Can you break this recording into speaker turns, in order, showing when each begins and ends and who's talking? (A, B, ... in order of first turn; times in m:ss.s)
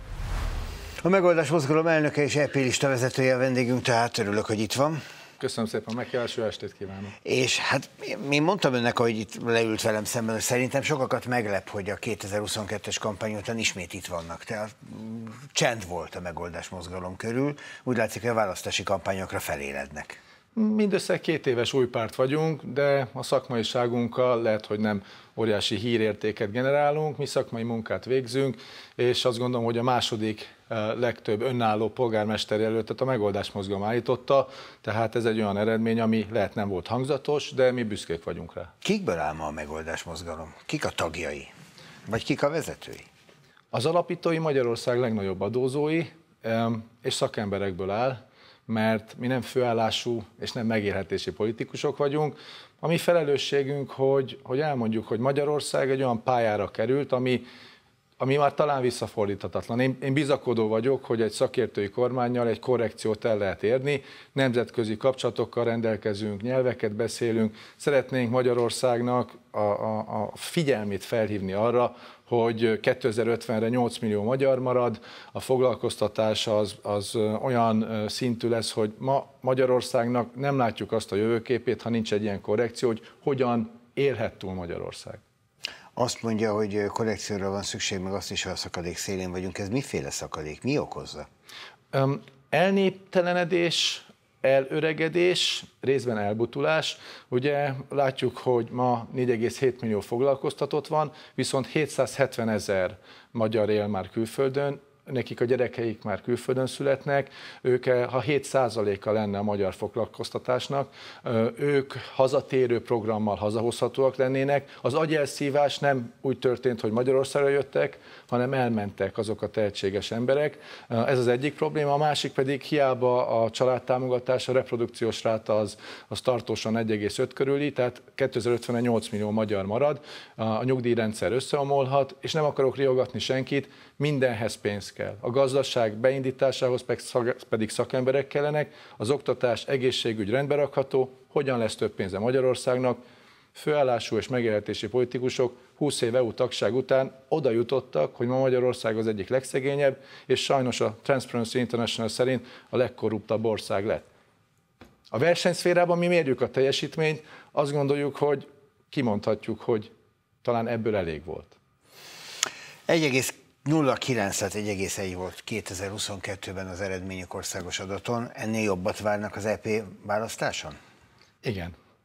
0:01.0-0:05.0 A
0:05.4-0:07.2 B
0:07.2-0:20.2 A
0:20.6-0:38.7 B
0:38.8-0:41.5 A
0:42.1-0:43.1 A
0:43.7-0:57.4 B
0:58.2-1:25.2 B
1:26.0-1:31.3 A
1:31.9-2:23.0 B
2:23.5-2:34.1 B
2:35.1-2:39.9 B
2:40.4-2:41.6 B
2:42.9-2:50.8 A
2:51.4-2:51.8 B